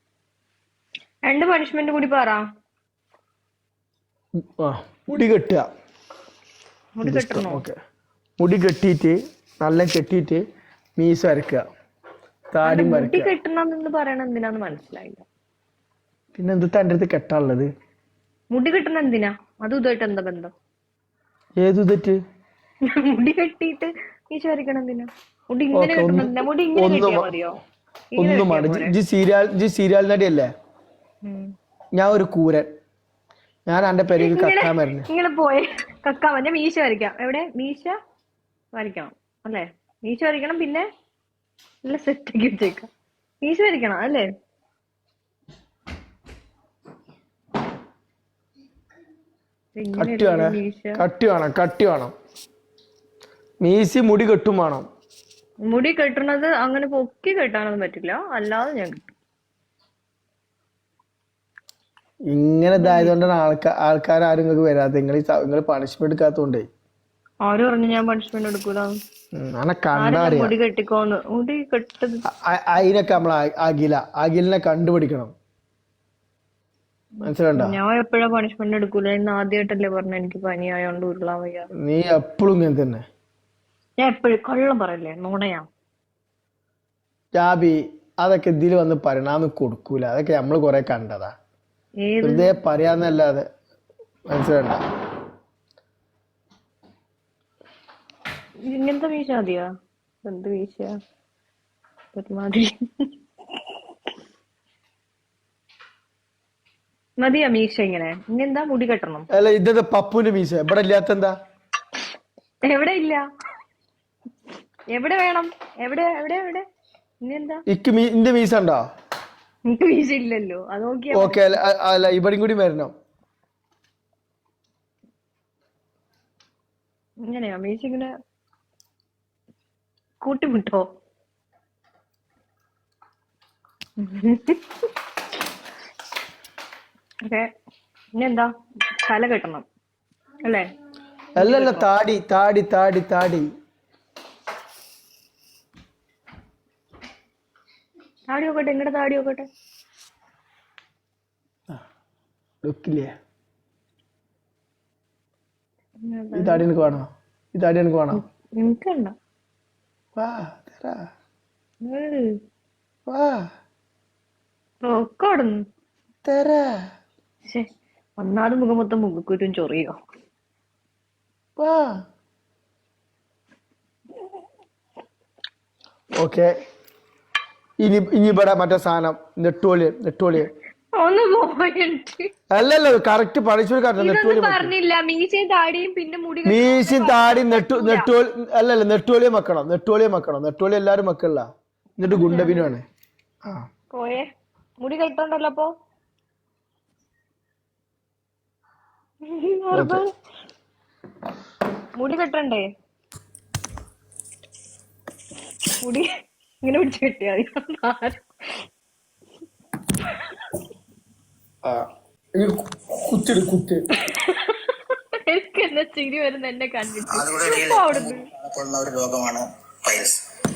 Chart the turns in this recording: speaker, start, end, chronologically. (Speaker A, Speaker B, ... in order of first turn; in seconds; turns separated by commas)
Speaker A: 1.2-2.4, Speaker B: 4.6-5.7, Speaker A: 7.0-7.6, Speaker B: 7.0-7.7, Speaker B: 8.4-10.4, Speaker B: 11.0-11.6, Speaker B: 12.5-13.3, Speaker A: 12.6-15.2, Speaker B: 16.3-17.7, Speaker A: 18.5-20.5, Speaker B: 21.6-22.2, Speaker A: 22.9-27.6, Speaker B: 25.7-27.3, Speaker A: 28.1-28.9, Speaker B: 28.2-30.5, Speaker A: 31.2-31.5, Speaker B: 31.9-32.7, Speaker B: 33.7-35.1, Speaker A: 34.2-37.9, Speaker A: 38.7-40.9, Speaker A: 41.8-42.9, Speaker A: 43.4-44.2, Speaker A: 49.8-51.0, Speaker B: 50.0-52.1, Speaker B: 53.6-54.9, Speaker A: 55.7-59.1, Speaker B: 62.3-66.6, Speaker A: 62.8-63.1, Speaker A: 67.5-68.9, Speaker B: 69.3-70.5, Speaker A: 70.0-72.2, Speaker B: 72.3-75.3, Speaker B: 77.2-77.8, Speaker A: 77.5-81.7, Speaker B: 81.8-83.0, Speaker A: 84.0-85.6, Speaker B: 87.3-91.3, Speaker A: 92.0-92.6, Speaker B: 92.2-93.5, Speaker B: 94.3-94.8, Speaker A: 98.7-99.7, Speaker A: 100.2-100.9, Speaker A: 102.1-103.1, Speaker A: 107.2-109.3, Speaker B: 109.3-111.3, Speaker A: 112.6-113.2, Speaker A: 114.9-116.6, Speaker A: 117.2-117.6, Speaker B: 117.7-118.8, Speaker A: 119.6-121.6, Speaker B: 121.1-122.9, Speaker A: 127.2-128.1, Speaker A: 130.2-130.8, Speaker A: 134.0-134.8, Speaker A: 138.2-138.5, Speaker A: 139.0-139.6, Speaker A: 141.3-141.8, Speaker B: 141.4-143.4, Speaker A: 148.3-149.5, Speaker B: 152.6-153.1, Speaker A: 156.0-156.6, Speaker B: 156.3-158.2, Speaker A: 158.2-159.1, Speaker B: 160.2-161.0, Speaker A: 161.8-162.4, Speaker B: 163.1-163.4, Speaker A: 164.8-165.6, Speaker B: 166.2-166.7, Speaker A: 168.2-169.9, Speaker B: 171.6-172.0, Speaker B: 176.1-176.5, Speaker B: 177.8-180.5, Speaker A: 180.9-182.3, Speaker B: 182.5-184.7, Speaker A: 184.0-188.1, Speaker B: 186.4-191.4, Speaker B: 192.0-192.8, Speaker A: 192.1-192.7, Speaker A: 193.9-194.3, Speaker A: 194.8-195.7, Speaker A: 199.2-200.1, Speaker B: 199.7-200.0, Speaker A: 202.0-202.6, Speaker A: 205.8-206.1, Speaker A: 206.6-208.2, Speaker A: 210.0-210.4, Speaker B: 211.6-213.8, Speaker A: 214.0-218.3, Speaker C: 217.1-220.2